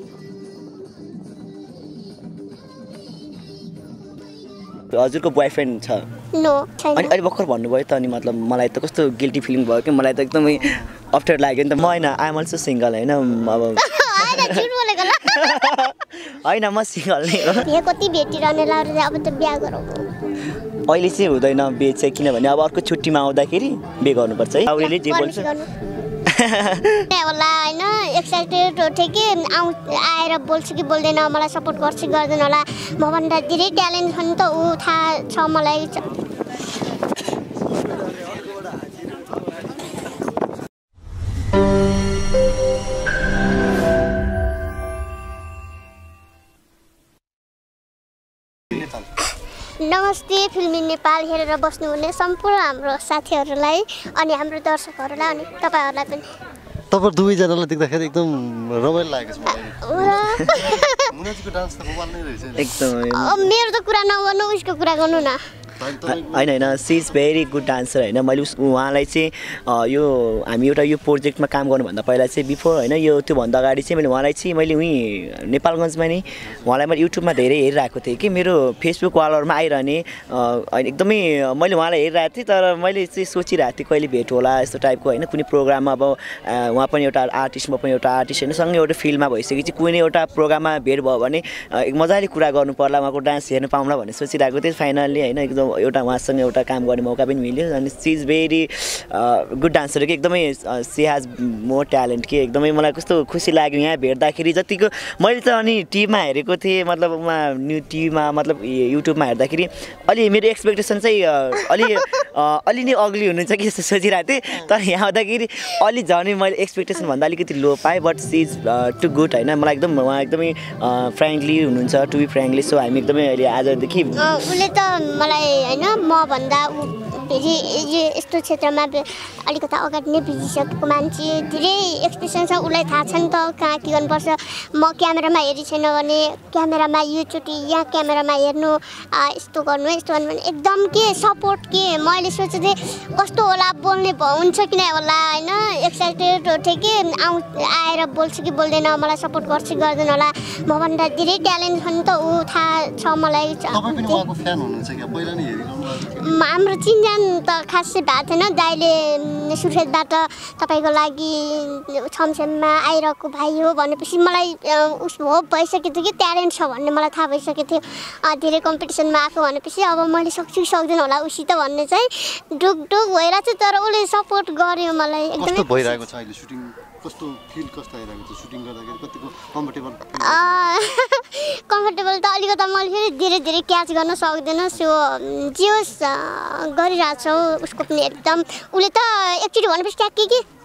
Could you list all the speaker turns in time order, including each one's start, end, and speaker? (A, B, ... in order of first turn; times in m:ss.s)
0:04.9-0:06.1 A
0:06.3-0:07.1 B
0:06.9-0:14.6 A
0:13.8-0:15.8 B
0:15.2-0:17.7 A
0:17.4-0:20.0 B
0:20.9-0:25.5 A
0:24.7-0:25.7 B
0:26.2-0:27.1 A
0:27.1-0:36.1 B
0:48.7-0:49.1 C
0:49.8-0:56.2 B
0:56.9-1:02.7 C
0:59.8-1:01.1 B
1:02.6-1:03.5 A
1:03.1-1:05.4 B
1:05.8-1:06.8 C
1:06.0-2:04.4 A
2:04.2-2:34.2 B
2:33.7-2:36.3 C
2:36.2-2:56.0 B
2:55.4-3:00.8 C
3:00.2-3:10.4 B